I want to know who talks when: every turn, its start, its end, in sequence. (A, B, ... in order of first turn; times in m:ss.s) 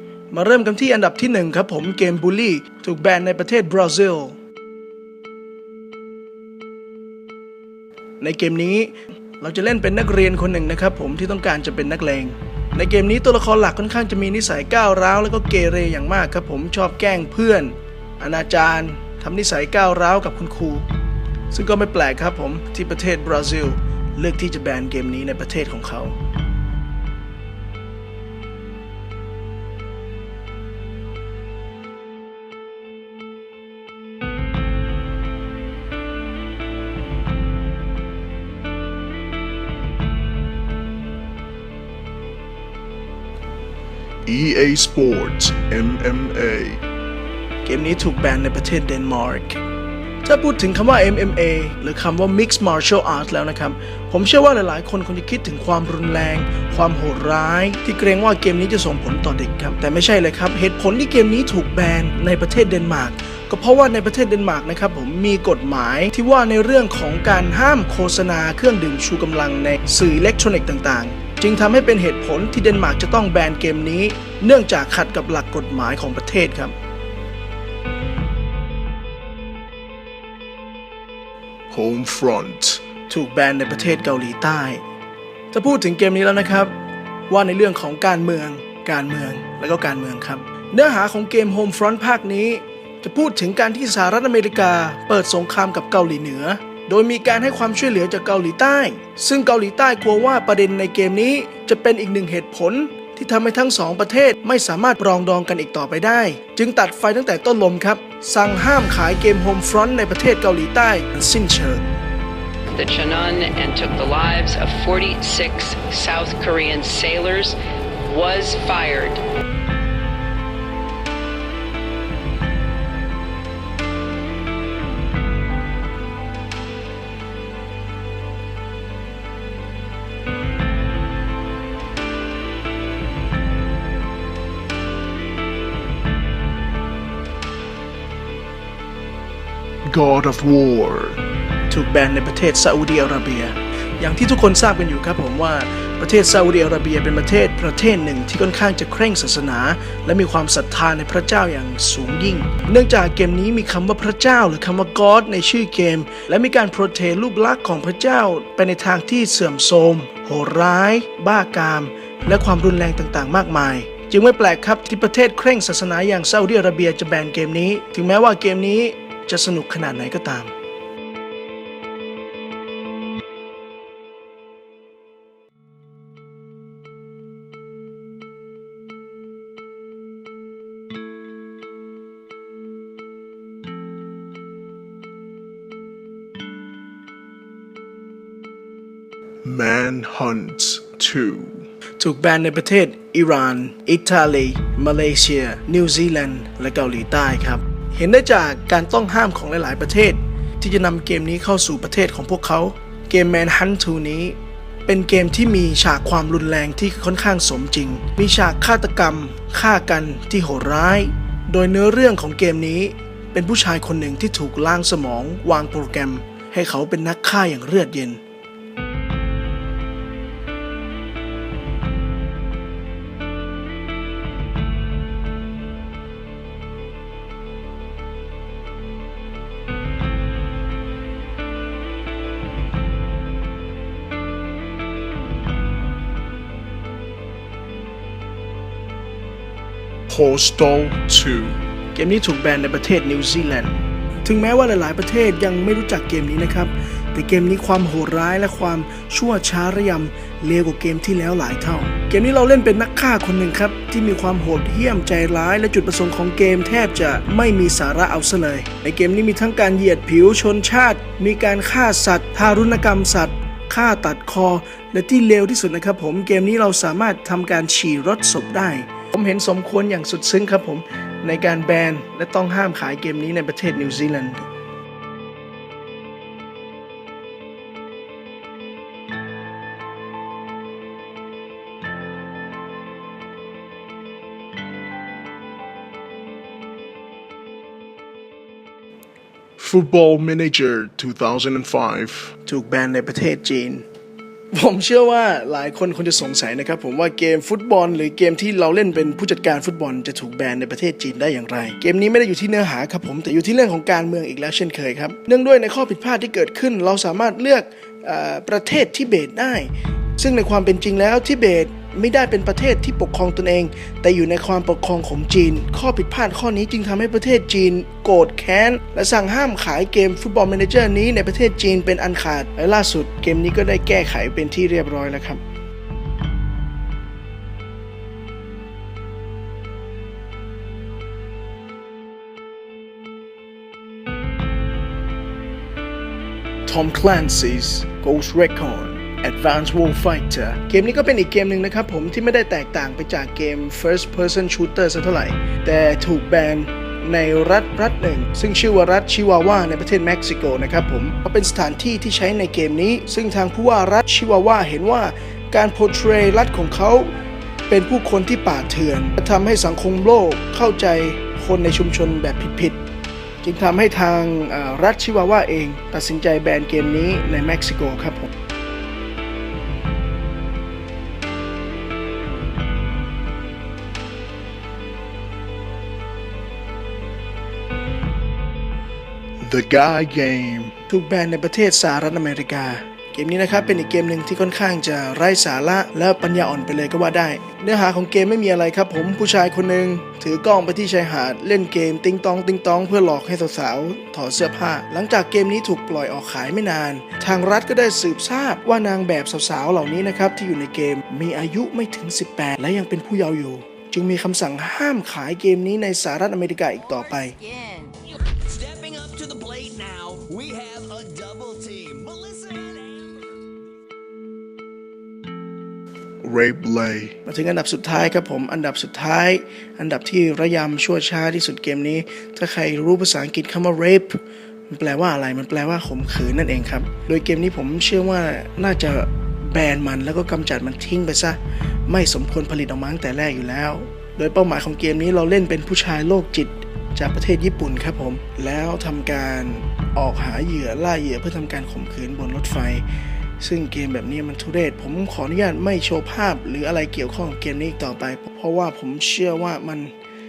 0:00.3-0:04.4 A
0:08.2-0:20.9 A
0:21.5-0:26.2 A
0:44.2-0:46.8 B
0:47.6-0:49.6 A
0:50.2-1:16.8 A
1:21.7-1:22.8 B
1:23.1-1:24.8 A
1:25.5-1:26.7 A
1:27.3-1:51.9 A
1:52.7-1:59.2 C
2:19.9-2:21.2 B
2:21.7-2:50.5 A
3:09.4-3:11.7 B
3:12.0-3:38.2 A
4:00.1-4:01.7 B
4:01.9-4:34.5 A
4:49.6-4:52.3 B
4:52.4-4:53.8 A
4:54.5-5:25.4 A
5:36.7-5:57.1 A
5:57.7-6:02.8 A
6:03.4-6:08.3 A
6:19.4-6:20.8 B
6:20.9-6:47.4 A
6:47.4-6:53.4 D
6:56.2-6:57.2 B
6:57.2-7:22.9 A
7:23.4-7:29.9 A